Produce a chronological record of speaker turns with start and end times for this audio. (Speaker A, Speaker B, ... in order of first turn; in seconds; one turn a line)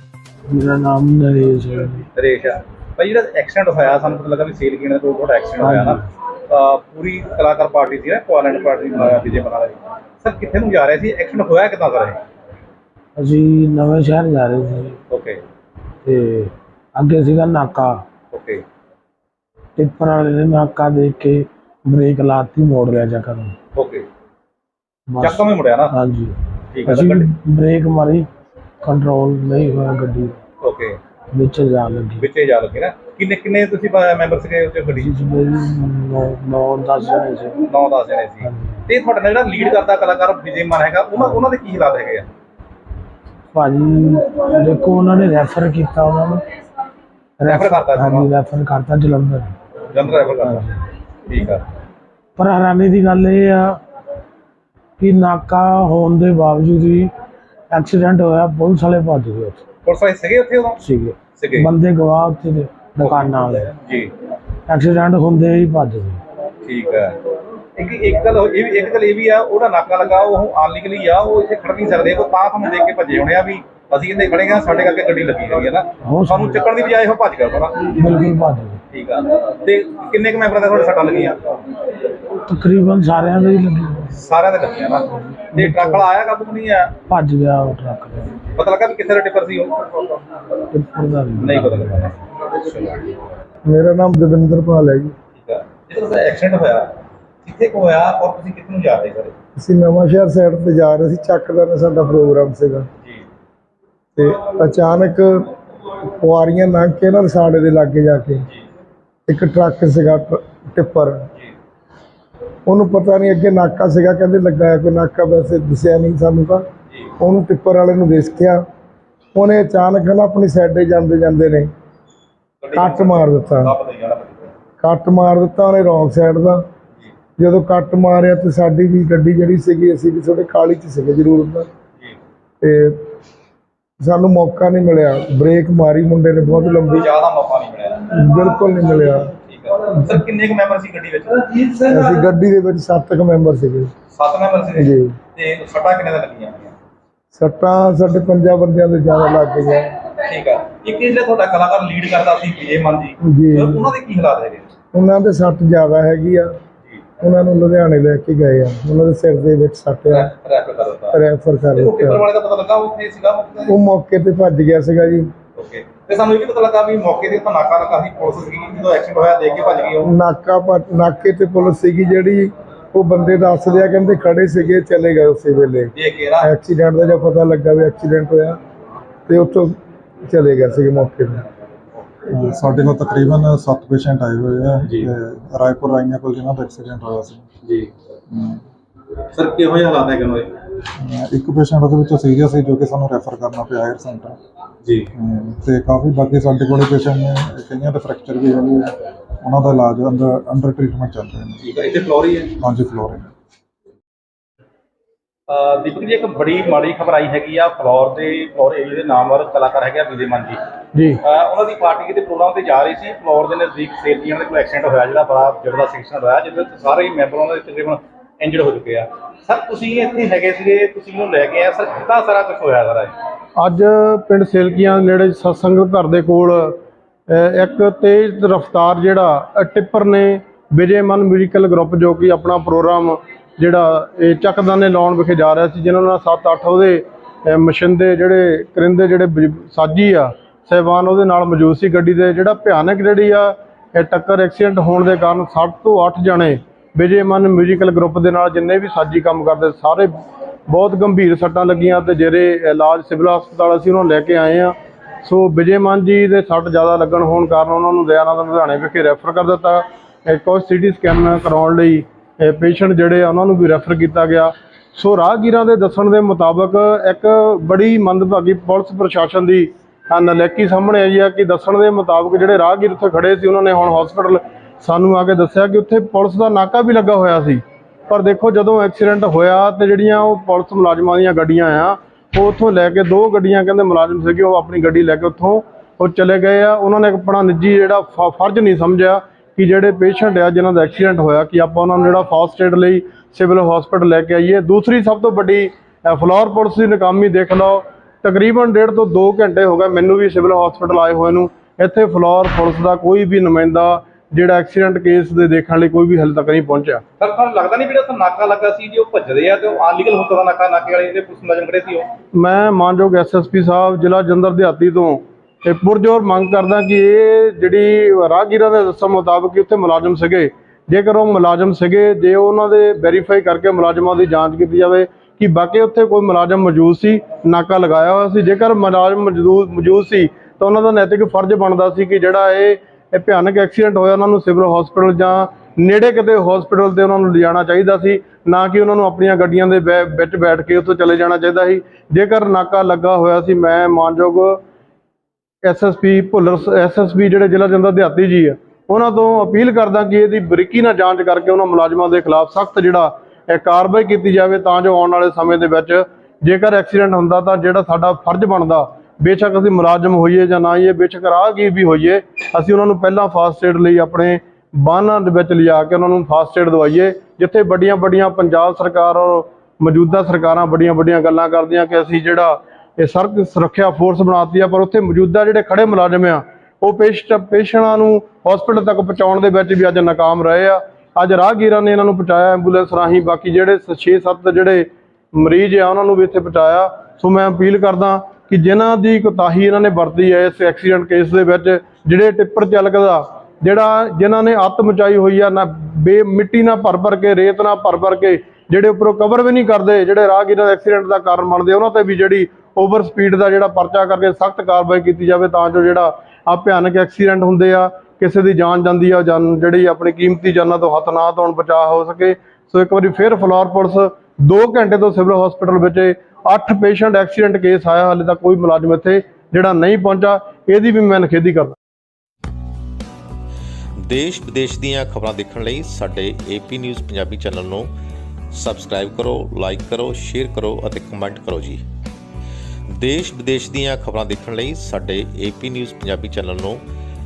Speaker A: 0.5-2.1
Speaker B: 2.2-12.2
Speaker A: 5.6-6.0
Speaker A: 13.2-15.0
Speaker B: 15.1-15.4
Speaker A: 16.0-18.0
Speaker B: 18.3-18.6
Speaker A: 19.8-23.6
Speaker B: 23.8-24.1
Speaker A: 25.1-28.3
Speaker B: 25.2-25.9
Speaker B: 26.7-27.4
Speaker A: 28.8-30.4
Speaker B: 30.6-31.0
Speaker A: 31.3-32.3
Speaker B: 32.2-35.1
Speaker A: 34.9-37.7
Speaker B: 37.7-42.3
Speaker A: 38.4-38.8
Speaker A: 43.5-46.4
Speaker A: 47.4-49.5
Speaker B: 47.5-48.3
Speaker B: 49.9-50.7
Speaker A: 50.4-50.8
Speaker B: 51.3-51.6
Speaker A: 52.4-53.8
Speaker A: 55.0-57.1
Speaker A: 57.7-59.6
Speaker B: 59.9-60.8
Speaker A: 60.8-63.7
Speaker B: 61.4-61.7
Speaker B: 63.0-64.1
Speaker A: 64.7-66.2
Speaker B: 66.7-67.2
Speaker B: 67.8-77.9
Speaker A: 76.0-76.7
Speaker A: 77.9-78.8
Speaker B: 78.9-81.6
Speaker A: 82.5-84.1
Speaker B: 84.1-86.9
Speaker A: 85.2-86.1
Speaker A: 87.1-88.4
Speaker B: 88.6-90.2
Speaker A: 90.7-92.1
Speaker B: 91.4-93.2
Speaker C: 93.7-95.1
Speaker B: 95.4-99.3
Speaker C: 99.6-102.9
Speaker C: 104.2-105.5
Speaker C: 106.0-108.5
Speaker C: 109.3-111.2
Speaker C: 112.7-116.7
Speaker C: 117.2-118.6
Speaker C: 119.3-121.7
Speaker B: 122.6-124.5
Speaker C: 122.7-123.7
Speaker C: 124.8-126.6
Speaker C: 127.4-131.7
Speaker C: 132.6-133.0
Speaker C: 134.0-137.1
Speaker B: 136.9-138.0
Speaker C: 138.1-139.3
Speaker B: 139.5-142.0
Speaker C: 141.8-143.9
Speaker B: 144.1-146.7
Speaker C: 144.8-145.2
Speaker C: 147.3-149.9
Speaker B: 150.2-154.7
Speaker C: 153.2-153.9
Speaker C: 154.9-156.5
Speaker C: 157.2-160.3
Speaker B: 160.1-161.2
Speaker C: 161.1-162.2
Speaker B: 161.8-163.8
Speaker C: 163.7-165.3
Speaker B: 165.6-170.1
Speaker C: 170.0-178.6
Speaker B: 175.9-176.5
Speaker C: 179.3-179.7
Speaker C: 180.3-181.4
Speaker D: 182.3-187.5
Speaker B: 187.6-187.9
Speaker D: 188.3-188.6
Speaker B: 189.3-190.5
Speaker D: 191.0-194.4
Speaker B: 194.8-195.1
Speaker D: 195.2-201.6
Speaker B: 201.6-202.5
Speaker D: 202.6-203.3
Speaker B: 205.5-210.6
Speaker B: 211.3-223.2
Speaker E: 223.6-307.0
Speaker B: 307.2-312.1
Speaker E: 312.3-344.6
Speaker E: 345.6-421.8
Speaker F: 424.0-427.9
Speaker F: 428.5-431.8
Speaker F: 433.0-436.8